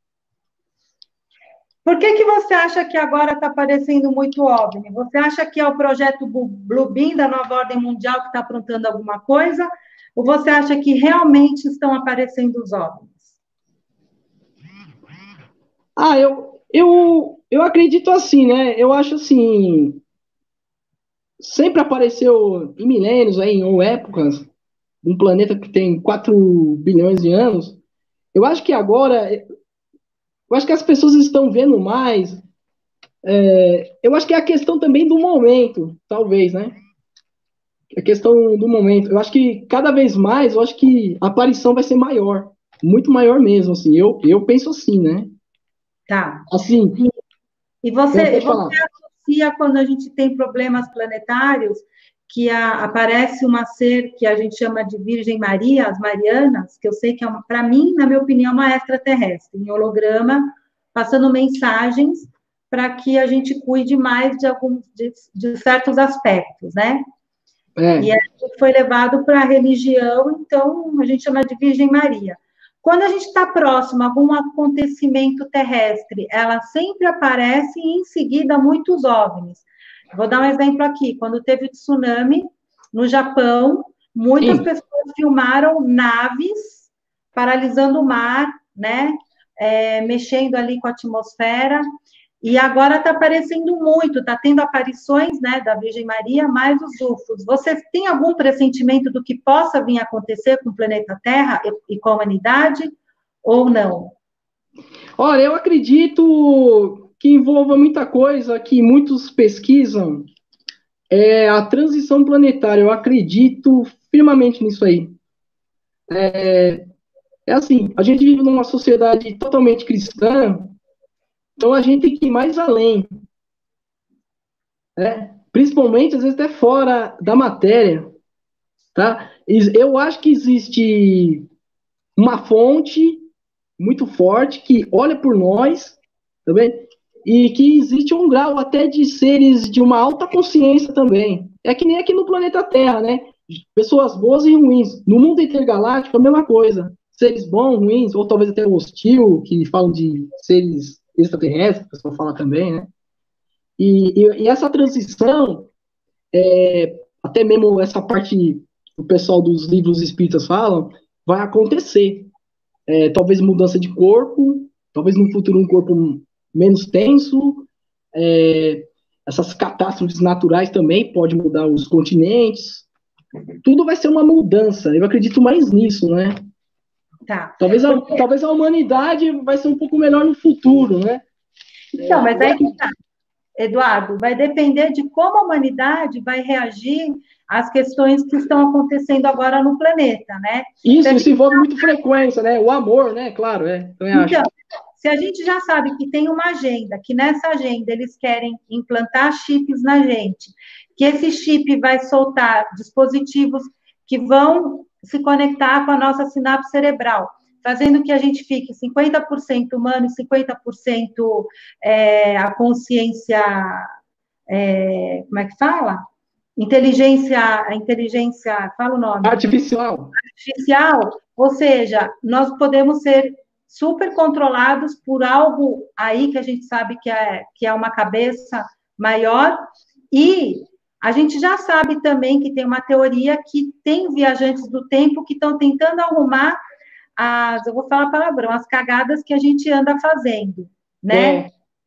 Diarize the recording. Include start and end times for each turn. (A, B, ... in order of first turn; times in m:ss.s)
0:01.8-0:13.3 A
0:16.0-0:20.0 B
0:21.4-0:24.5 B
0:25.0-0:27.8 B
0:28.3-0:29.5 B
0:30.5-0:32.4 B
0:33.2-0:36.8 B
0:37.9-0:45.3 B
0:46.1-0:47.1 A
0:46.5-0:47.0 B
0:47.8-1:07.0 A
0:48.1-0:48.8 B
1:07.8-1:08.1 B
1:08.0-1:31.8 A
1:24.4-1:24.7 B
1:32.4-1:42.9 A
1:43.4-1:44.2 A
1:45.2-1:50.3 B
1:51.1-1:55.1 B
1:56.1-1:56.8 B
1:57.5-2:00.7 B
2:01.6-2:03.1 B
2:05.0-2:08.1 B
2:09.0-2:11.5 B
2:12.2-2:13.3 B
2:13.8-2:32.9 B
2:33.8-2:35.7 B
2:36.3-2:42.3 B
2:42.9-2:52.9 B
2:53.6-2:56.4 B
2:57.3-2:58.2 A
2:57.6-3:01.2 B
3:02.0-3:03.0 A
3:02.0-3:02.8 B
3:03.6-3:11.8 A
3:10.8-3:14.4 B
3:14.1-3:33.9 A
3:34.5-3:36.0 A
3:36.6-3:39.5 A
3:39.2-3:40.1 B
3:40.2-3:56.6 A
3:57.2-4:01.5 A
4:01.1-4:01.5 B